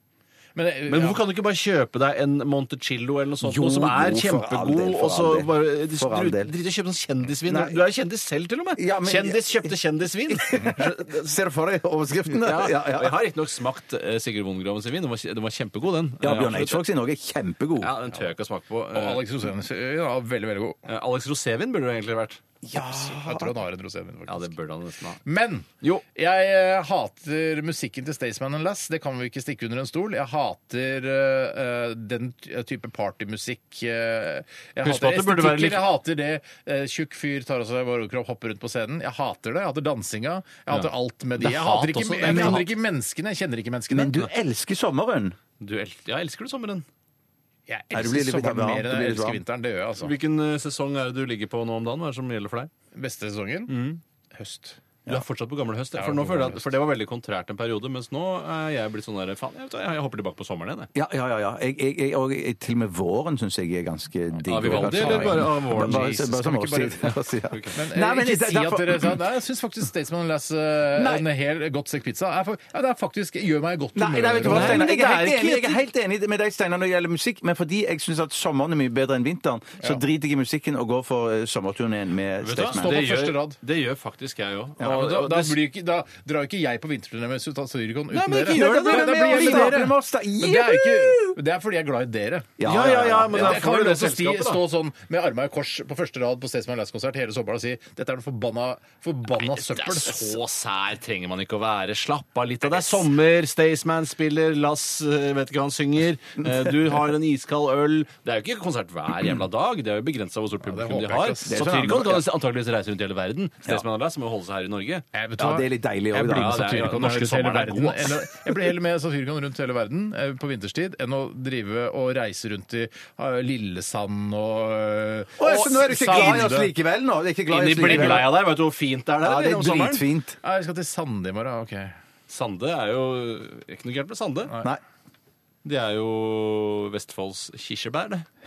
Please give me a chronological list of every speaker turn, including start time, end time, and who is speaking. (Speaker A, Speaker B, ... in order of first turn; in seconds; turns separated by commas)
Speaker A: 0.6-1.2, Speaker B: 0.9-11.3, Speaker C: 3.4-6.5, Speaker C: 7.5-7.8, Speaker C: 8.8-9.7, Speaker C: 10.3-13.2, Speaker B: 12.4-16.8, Speaker C: 16.2-17.9, Speaker B: 17.8-19.2, Speaker A: 18.9-20.8, Speaker B: 20.9-22.4, Speaker C: 22.6-23.5, Speaker A: 22.7-24.5, Speaker B: 24.3-25.2, Speaker A: 25.2-44.3, Speaker B: 34.8-35.8, Speaker B: 40.7-42.7, Speaker C: 42.2-42.6, Speaker C: 43.9-45.4, Speaker B: 45.6-46.9, Speaker A: 47.7-50.1, Speaker C: 47.9-49.4, Speaker B: 50.0-52.7, Speaker A: 53.0-54.8, Speaker B: 53.7-54.0, Speaker B: 55.1-60.9, Speaker A: 56.0-56.6, Speaker C: 60.9-69.1, Speaker B: 64.5-66.3, Speaker A: 64.6-67.2, Speaker B: 67.1-67.8, Speaker A: 67.7-75.8, Speaker C: 70.9-71.3, Speaker C: 74.0-83.0, Speaker B: 74.5-74.9, Speaker B: 82.4-85.6, Speaker A: 82.6-83.6, Speaker A: 84.8-92.6, Speaker B: 88.1-89.8, Speaker C: 88.3-91.4, Speaker C: 92.6-93.6, Speaker B: 92.6-94.6, Speaker A: 93.3-100.4, Speaker B: 99.4-115.0, Speaker A: 110.6-111.8, Speaker C: 111.5-112.2, Speaker A: 115.1-126.7, Speaker C: 115.4-116.7, Speaker B: 116.2-118.5, Speaker C: 125.4-128.3, Speaker B: 125.5-126.5, Speaker B: 127.5-130.1, Speaker A: 127.8-128.3, Speaker C: 129.2-130.4, Speaker A: 130.4-132.0, Speaker B: 132.3-134.5, Speaker B: 135.6-138.3